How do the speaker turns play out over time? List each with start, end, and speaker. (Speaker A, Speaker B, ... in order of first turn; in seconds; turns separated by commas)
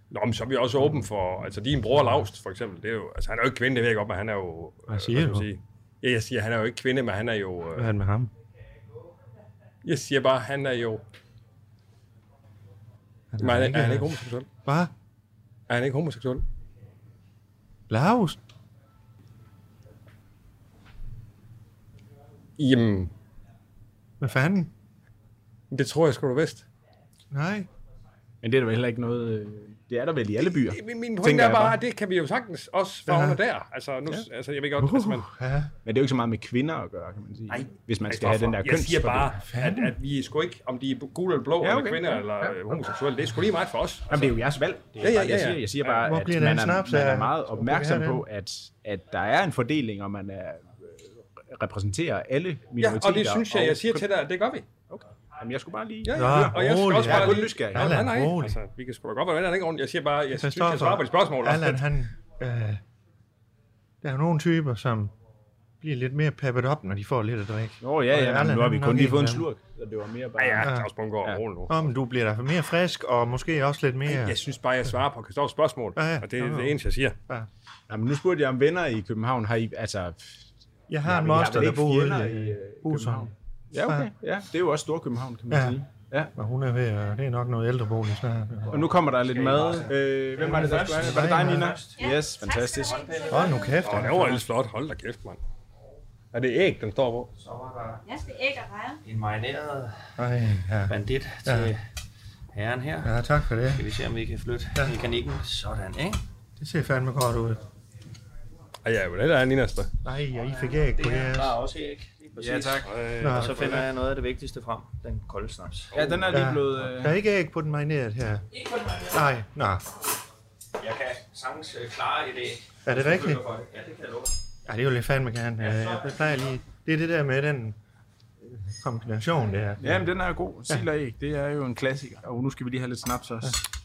Speaker A: 0.1-7.9, Speaker B: 4.9-5.5, Speaker B: 7.8-8.3, Speaker A: 9.8-11.0, Speaker B: 13.3-14.9, Speaker A: 13.4-14.5, Speaker A: 15.7-16.4, Speaker B: 17.9-18.4, Speaker A: 22.6-23.1, Speaker B: 24.2-24.7, Speaker A: 25.7-26.6, Speaker B: 27.3-27.7, Speaker C: 28.4-31.8, Speaker A: 30.6-35.2, Speaker B: 33.0-33.4, Speaker C: 34.9-35.2, Speaker B: 35.2-35.7, Speaker C: 35.8-39.5, Speaker A: 38.1-44.3, Speaker B: 39.5-39.9, Speaker C: 41.6-42.8, Speaker C: 44.1-54.0, Speaker A: 45.0-46.0, Speaker B: 46.0-48.2, Speaker A: 52.8-54.7, Speaker C: 54.9-58.1, Speaker A: 56.0-61.8, Speaker B: 56.1-58.6, Speaker B: 60.3-62.8, Speaker B: 64.0-65.1, Speaker B: 65.8-69.5, Speaker C: 67.8-71.4, Speaker A: 70.4-71.8, Speaker B: 70.6-70.9, Speaker B: 71.7-74.4, Speaker A: 74.1-77.2, Speaker B: 76.0-77.5, Speaker C: 77.9-80.5, Speaker B: 80.9-83.3, Speaker C: 81.0-86.3, Speaker B: 83.8-84.1, Speaker B: 85.5-85.8, Speaker B: 86.3-88.9, Speaker C: 88.7-93.0, Speaker D: 89.3-92.0, Speaker B: 90.4-91.8, Speaker E: 92.0-93.8, Speaker D: 92.8-93.5, Speaker B: 93.2-94.5, Speaker A: 93.8-95.4, Speaker A: 96.3-97.3, Speaker D: 97.3-98.0, Speaker E: 98.0-99.0, Speaker D: 99.0-100.1, Speaker B: 100.2-101.7, Speaker D: 100.9-101.8, Speaker D: 102.5-103.1, Speaker B: 103.0-103.9, Speaker D: 103.7-106.2, Speaker B: 106.6-107.6, Speaker A: 108.8-109.9, Speaker B: 110.0-111.6, Speaker D: 110.5-116.3, Speaker C: 112.4-113.0, Speaker A: 112.8-113.9, Speaker B: 113.2-113.8, Speaker C: 115.9-117.2, Speaker B: 116.3-118.5, Speaker D: 118.8-119.0, Speaker B: 119.1-119.8, Speaker D: 120.8-124.3, Speaker B: 122.8-123.4, Speaker B: 124.7-127.8, Speaker D: 125.6-126.0, Speaker B: 128.6-130.0, Speaker C: 129.8-133.6